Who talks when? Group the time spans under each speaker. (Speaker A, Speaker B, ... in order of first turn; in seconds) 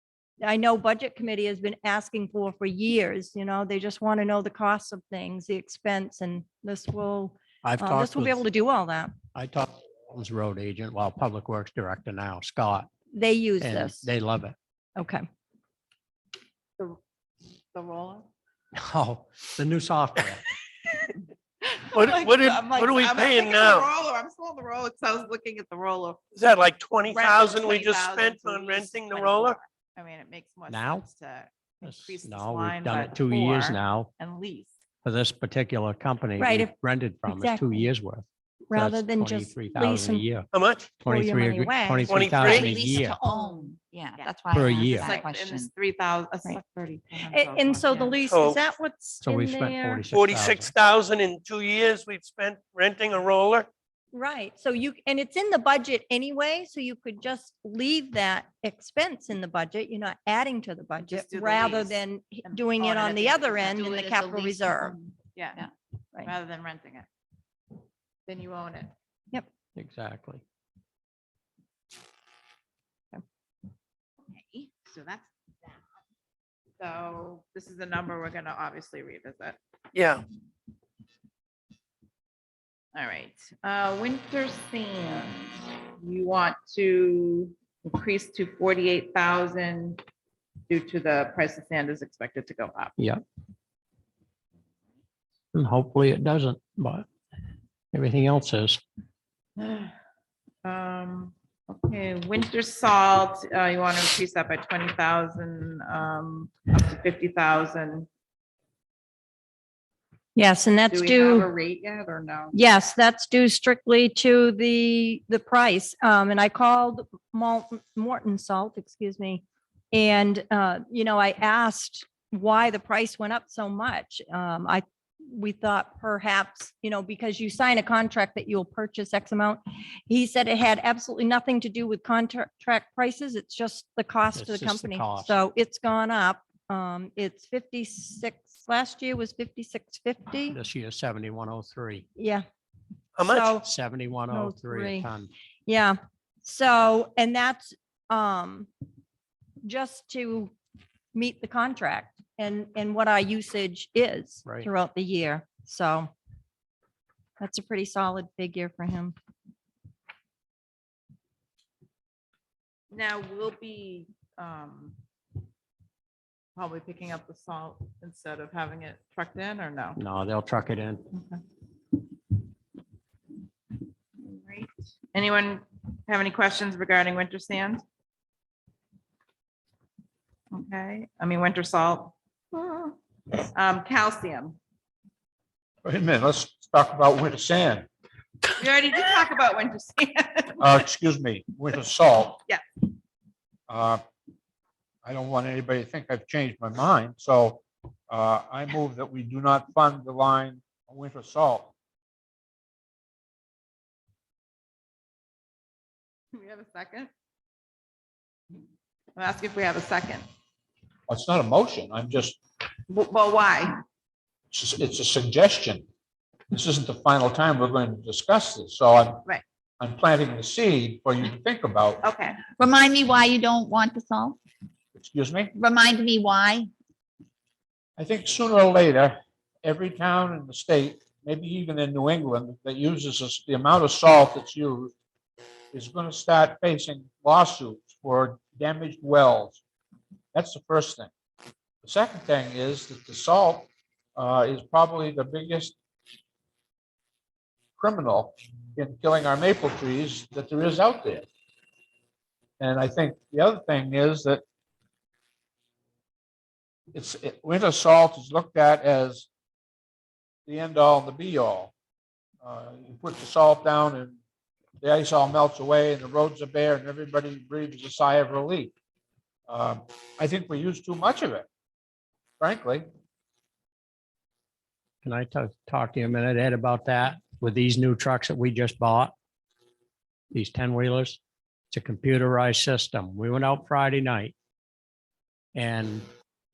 Speaker A: 0.4-9.1, 13.1-14.1, 15.0-15.2, 36.4-36.7, 37.2-37.9, 38.7-40.3, 41.1-41.6, 47.3-50.0, 54.1-65.0, 110.4-111.5, 112.5-140.6, 142.2-142.4, 143.2-143.7, 144.3-145.1, 145.7-148.7, 149.6-150.5, 151.1-156.1, 157.4-159.1
Speaker B: 7.6-8.4, 9.3-12.9, 13.6-14.5, 18.7-20.4, 30.7-31.1, 31.8-34.1, 35.0-43.2, 44.5-45.1, 49.2-50.7, 69.8-70.4, 95.5-97.1, 97.9-98.8, 134.3-135.4, 140.5-142.1, 143.5-145.3, 170.0-171.1, 275.0-279.1, 280.3-281.2, 281.7-284.3, 285.5-286.0
Speaker C: 17.7-18.3, 21.6-26.2, 27.1-34.8, 43.2-48.2, 61.0-64.1, 65.3-65.7, 66.2-67.1, 68.2-68.9, 74.3-75.8, 76.8-79.6, 83.0-90.0, 90.7-93.0, 99.6-99.9, 100.6-108.1, 110.9-112.6, 162.9-165.0, 166.6-170.0, 171.1-171.4, 174.2-177.8, 180.5-184.6, 188.6-190.7, 206.3-207.1, 209.2-210.2, 212.9-213.8, 222.0-222.5
Speaker D: 21.9-23.9, 26.3-29.6, 40.5-41.0, 42.1-42.8, 48.2-48.6, 50.1-53.7, 79.9-80.2, 143.2-143.6
Speaker E: 41.6-45.7, 64.0-65.7, 222.5-224.4, 225.5-226.7
Speaker F: 185.8-187.9, 190.6-192.4, 193.7-194.0, 195.0-201.7, 211.1-212.4, 214.5-215.8, 216.5-219.2, 219.8-222.0, 224.9-225.5, 228.0-234.9, 235.7-239.6, 240.3-241.1, 241.8-245.7, 247.8-251.3, 252.6-254.4, 256.9-259.3, 260.5-261.7, 262.4-264.2, 264.8-268.7, 269.5-271.5, 272.4-272.8